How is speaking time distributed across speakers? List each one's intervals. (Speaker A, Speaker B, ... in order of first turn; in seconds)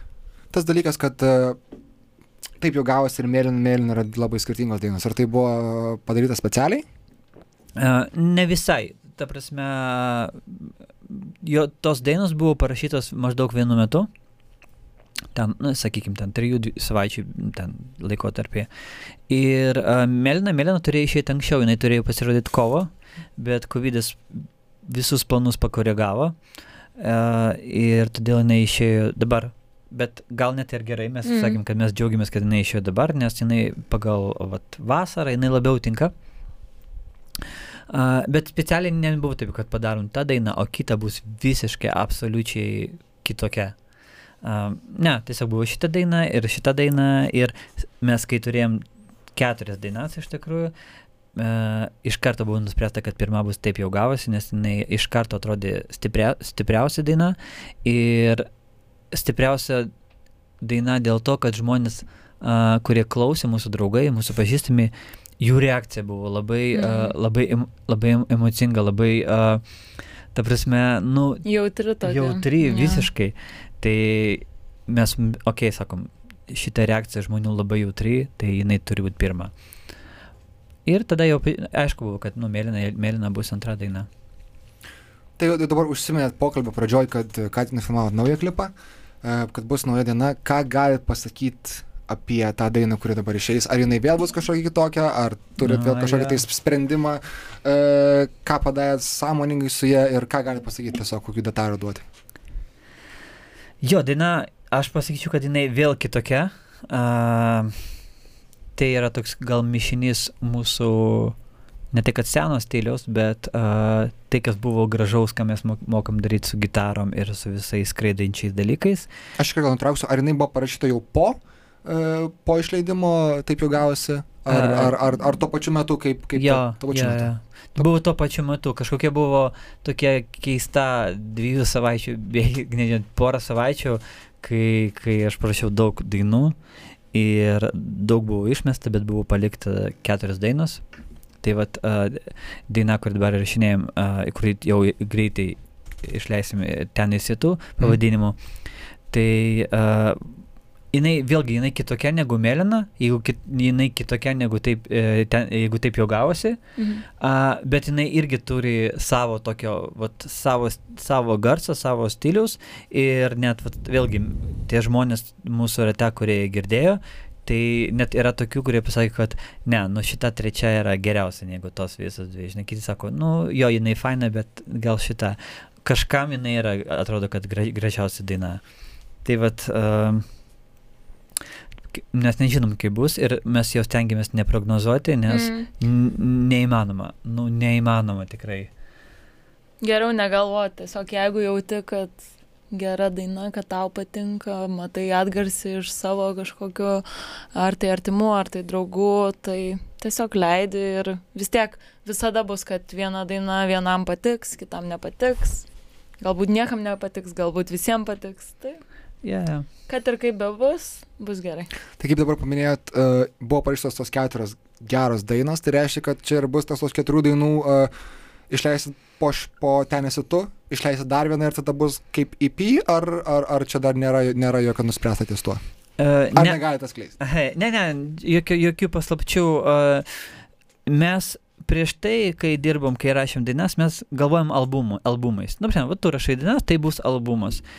Speaker A: 0.5-1.6, 2.6-6.8, 85.4-102.1, 119.4-127.9, 212.0-217.9, 218.5-225.6, 226.3-227.2
Speaker B: 7.8-14.1, 15.3-18.7, 19.3-26.4, 27.0-36.1, 37.9-43.8, 44.4-50.7, 51.4-58.5, 59.1-59.9, 60.6-69.6, 70.3-71.5, 72.0-79.5, 80.9-84.1, 95.6-96.4, 103.8-107.8, 108.8-111.4, 111.9-119.1, 124.5-125.0, 126.4-136.6, 137.1-140.8, 141.4-148.4, 149.1-156.6, 157.2-178.6, 179.2-180.2, 182.0-188.7, 209.2-209.7, 226.0-226.6, 227.2-230.3, 230.9-237.6
Speaker C: 31.2-31.6, 66.8-67.1, 71.5-73.1, 156.8-157.0, 185.3-185.7, 189.8-192.2, 192.7-205.7, 206.2-208.8, 209.9-211.7